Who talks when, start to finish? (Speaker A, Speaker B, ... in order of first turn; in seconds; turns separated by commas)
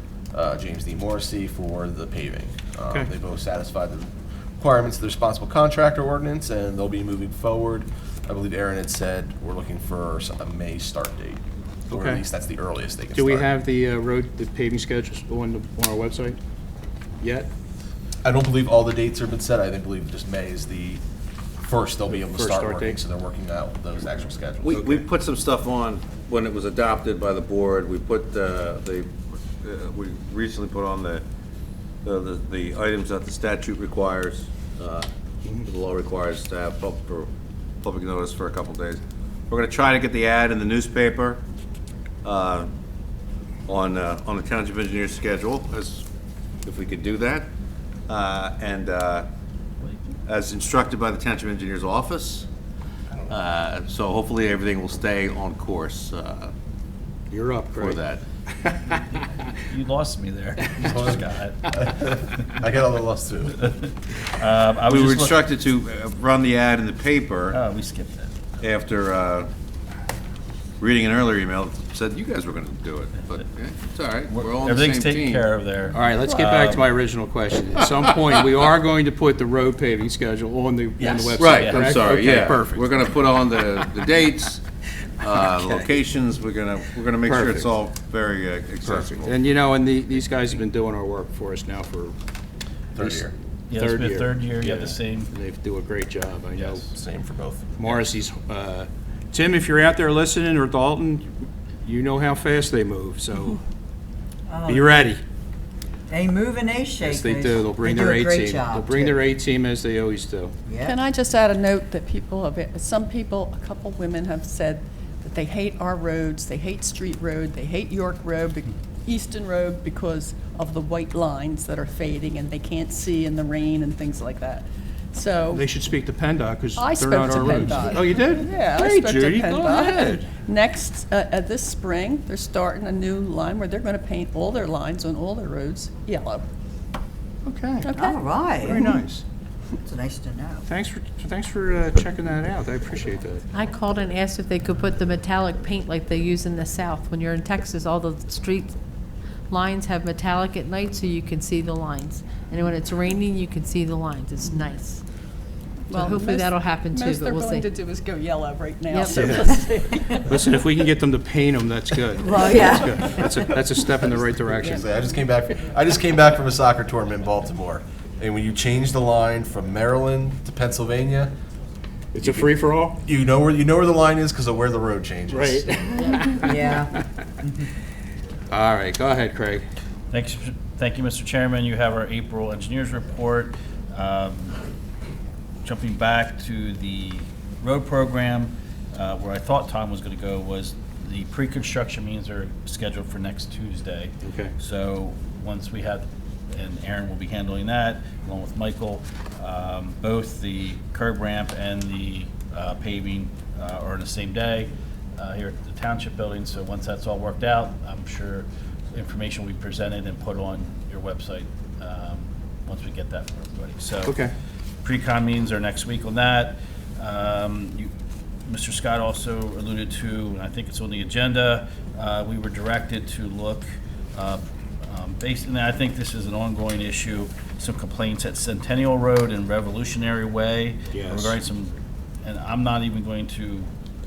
Speaker A: 0.3-13.5, Speaker B: 11.9-12.2, Speaker B: 13.1-16.4, Speaker B: 17.2-17.5, Speaker A: 18.2-21.0, Speaker A: 21.6-25.0, Speaker B: 22.1-23.0, Speaker C: 24.6-29.1, Speaker C: 29.6-31.2, Speaker C: 32.0-37.3, Speaker C: 37.8-41.4, Speaker C: 42.2-42.7, Speaker C: 43.7-46.1, Speaker C: 46.6-47.5, Speaker C: 48.1-49.3, Speaker C: 50.2-52.5, Speaker C: 53.3-56.5, Speaker B: 57.3-59.5, Speaker C: 57.8-58.2, Speaker D: 59.2-61.6, Speaker A: 60.8-63.6, Speaker D: 63.5-65.5, Speaker C: 64.8-67.6, Speaker D: 67.5-68.3, Speaker C: 68.6-69.5, Speaker C: 70.8-75.5, Speaker D: 74.3-76.8, Speaker B: 75.9-84.0, Speaker C: 81.4-84.6, Speaker D: 81.5-81.9, Speaker C: 85.2-89.3, Speaker B: 85.2-85.9, Speaker B: 87.2-87.7, Speaker B: 88.8-92.1, Speaker A: 92.9-93.3, Speaker B: 93.0-96.8, Speaker D: 93.7-95.3, Speaker D: 96.5-96.8, Speaker A: 96.9-97.7, Speaker B: 97.8-101.3, Speaker B: 101.8-103.6, Speaker E: 104.5-105.0, Speaker B: 104.7-105.2, Speaker E: 106.1-109.2, Speaker B: 107.0-110.5, Speaker E: 110.7-111.0, Speaker F: 110.8-125.7, Speaker B: 125.5-130.3, Speaker F: 126.8-136.5, Speaker B: 137.4-139.2, Speaker F: 137.8-138.2, Speaker E: 137.9-139.0, Speaker E: 139.8-140.6, Speaker B: 140.7-143.4, Speaker G: 143.5-148.7, Speaker G: 149.5-155.0, Speaker F: 155.9-160.5, Speaker G: 155.9-157.7, Speaker G: 158.9-159.2, Speaker B: 159.1-164.8, Speaker E: 162.2-162.9, Speaker A: 164.6-171.3, Speaker B: 172.1-173.0, Speaker A: 172.2-175.7, Speaker B: 175.3-176.6, Speaker E: 176.4-177.7, Speaker B: 178.5-179.7, Speaker D: 180.1-184.6, Speaker D: 185.6-214.2, Speaker B: 194.2-194.5, Speaker B: 214.0-214.3, Speaker D: 214.8-217.9, Speaker D: 218.5-233.7, Speaker B: 230.9-231.3